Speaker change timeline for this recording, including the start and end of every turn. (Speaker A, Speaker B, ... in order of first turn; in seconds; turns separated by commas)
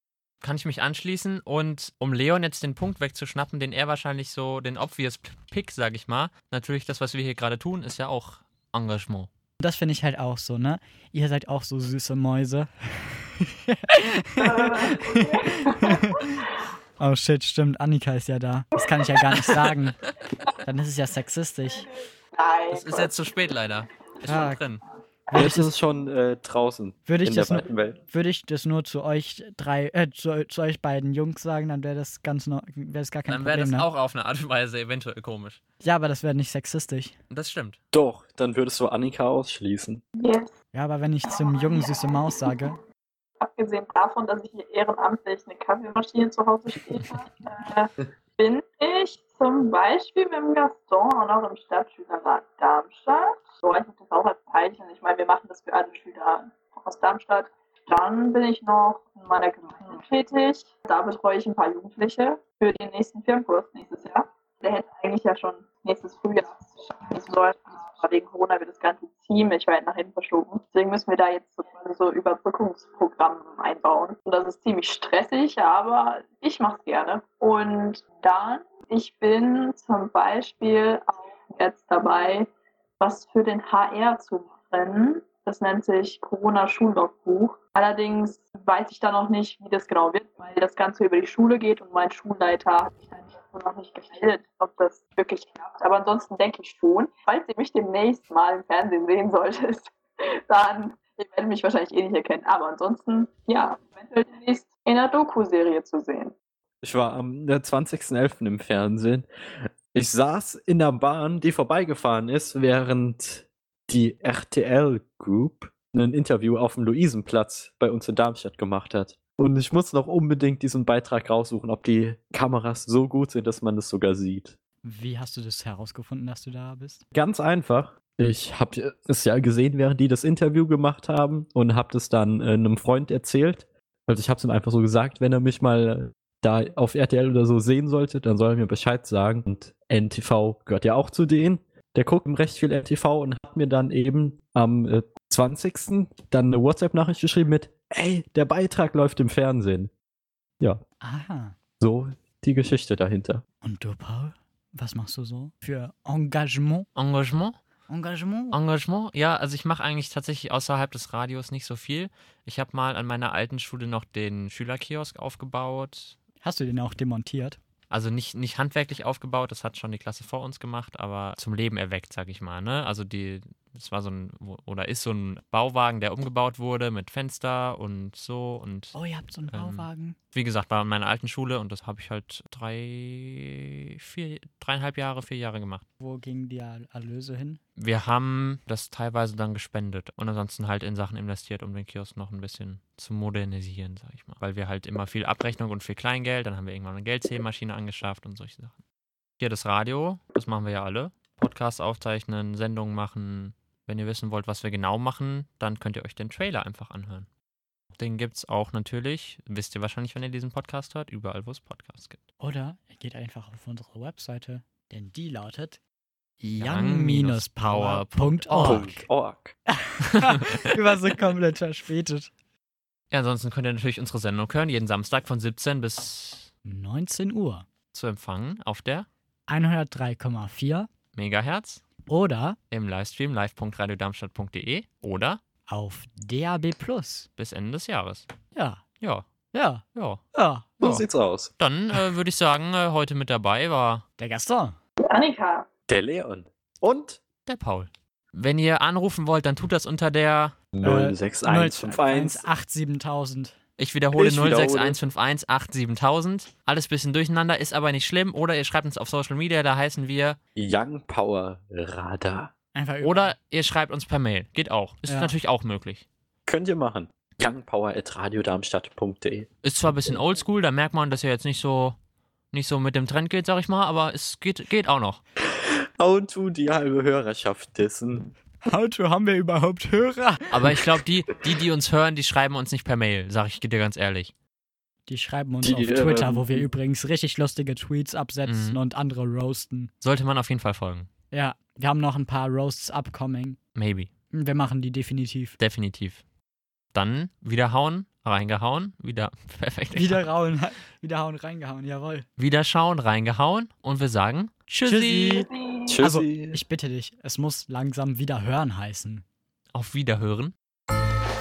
Speaker A: 0.4-9.3, Speaker B: 9.6-16.3, Speaker C: 14.4-16.3, Speaker B: 17.0-20.0, Speaker B: 20.6-21.9, Speaker C: 21.9-23.1, Speaker A: 22.7-24.8, Speaker B: 24.2-24.6, Speaker B: 25.3-25.7, Speaker D: 25.3-28.0, Speaker B: 27.1-33.9, Speaker A: 33.3-35.6, Speaker B: 35.8-37.1, Speaker A: 37.3-37.8, Speaker D: 37.9-40.0, Speaker C: 40.1-40.5, Speaker B: 40.7-42.8, Speaker C: 41.3-42.3, Speaker C: 43.4-82.5, Speaker C: 83.0-99.9, Speaker C: 100.5-106.3, Speaker D: 106.8-109.3, Speaker D: 109.9-124.5, Speaker B: 124.8-127.0, Speaker D: 127.1-149.9, Speaker B: 151.0-151.5, Speaker D: 151.8-153.4, Speaker B: 153.6-156.9, Speaker A: 156.9-157.6, Speaker B: 157.9-158.6, Speaker A: 158.5-166.2, Speaker B: 166.4-167.6, Speaker A: 167.9-178.9, Speaker B: 178.9-180.2, Speaker A: 179.5-185.8, Speaker B: 186.0-187.6, Speaker A: 187.8-198.8, Speaker A: 199.4-207.3, Speaker A: 207.9-212.2, Speaker B: 212.4-215.8, Speaker B: 216.4-219.0, Speaker A: 216.6-218.9, Speaker D: 218.6-219.5, Speaker B: 219.7-222.3, Speaker A: 220.1-220.7, Speaker A: 223.1-226.5, Speaker B: 226.6-227.7, Speaker A: 227.9-229.1, Speaker B: 229.5-230.9, Speaker A: 231.1-231.8, Speaker B: 232.1-232.6, Speaker A: 232.7-235.4, Speaker B: 235.7-237.3, Speaker A: 237.4-238.3, Speaker B: 238.5-238.8, Speaker A: 239.0-239.2, Speaker B: 239.5-240.9, Speaker A: 239.9-240.2, Speaker D: 240.8-241.5, Speaker A: 241.6-244.0, Speaker B: 244.2-244.8, Speaker C: 245.0-245.7, Speaker D: 245.9-247.2, Speaker A: 247.5-250.5, Speaker D: 250.7-252.5, Speaker B: 250.8-253.5, Speaker A: 253.8-260.4, Speaker D: 254.1-255.0, Speaker D: 260.6-262.5, Speaker B: 262.7-263.4, Speaker A: 263.0-266.0, Speaker B: 265.1-265.3, Speaker D: 266.4-269.5, Speaker A: 269.6-271.9, Speaker A: 272.5-275.2, Speaker D: 275.6-278.3, Speaker B: 278.6-280.6, Speaker A: 280.5-284.3, Speaker B: 285.1-289.9, Speaker D: 285.6-286.7, Speaker A: 288.4-288.8, Speaker A: 290.0-291.1, Speaker B: 291.3-293.6, Speaker A: 293.8-294.1, Speaker B: 294.3-295.6, Speaker A: 295.6-296.2, Speaker A: 296.9-300.2, Speaker B: 299.9-302.2, Speaker A: 302.4-305.4, Speaker B: 304.8-305.5, Speaker C: 305.4-306.0, Speaker D: 305.9-306.6, Speaker B: 306.0-309.2, Speaker A: 309.7-310.5